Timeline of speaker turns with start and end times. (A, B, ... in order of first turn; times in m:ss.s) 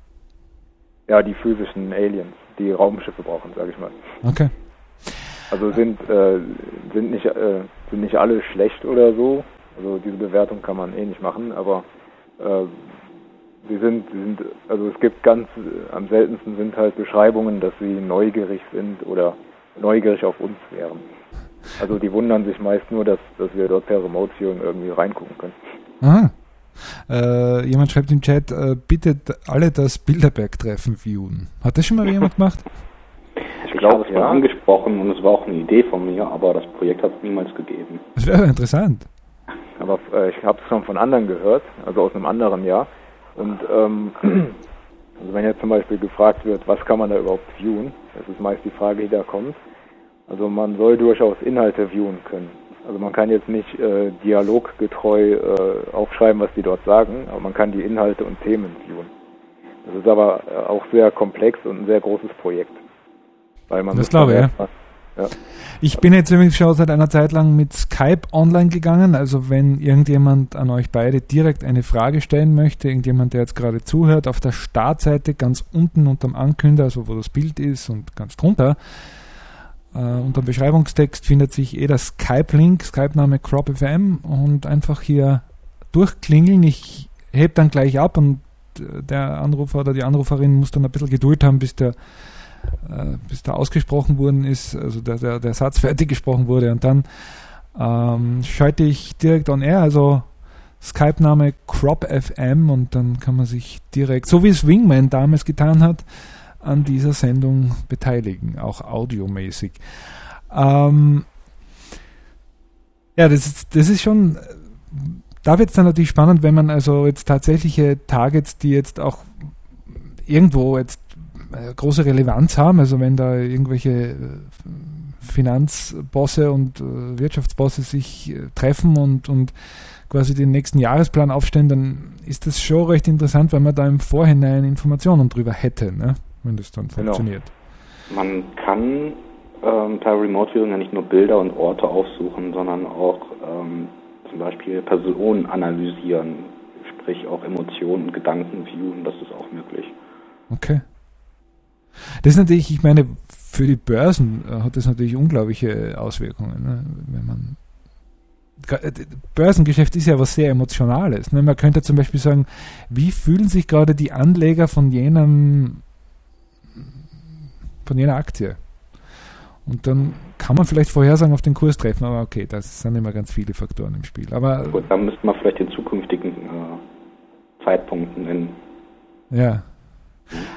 0:01.1-0:04.0 A
0:04.2-0:04.5 B
0:05.5-0:11.8 A
0:12.4-0:12.8 A
0:13.6-0:21.0 A
0:21.8-0:25.5 A
0:26.0-0:32.6 B
0:33.6-0:34.4 A
0:33.7-0:38.0 C
0:38.2-0:39.1 B
0:39.8-0:44.6 A
0:45.2-0:49.6 A
0:50.3-0:59.1 A
0:59.8-1:02.8 A
1:03.7-1:05.3 A
1:03.9-1:04.5 B
1:05.8-1:18.9 B
1:19.9-1:32.0 B
1:32.7-1:40.3 B
1:40.8-1:46.0 B
1:46.6-1:51.2 B
1:53.2-2:09.5 B
2:10.1-2:17.5 B
2:17.0-2:17.2 A
2:18.1-2:29.9 C
2:30.5-2:30.8 B
2:32.2-2:37.6 B
2:38.6-2:45.8 B
2:47.8-2:48.6 B
2:49.6-2:54.9 B
2:54.6-2:56.8 C
2:57.6-2:58.6 C
2:59.3-2:59.7 B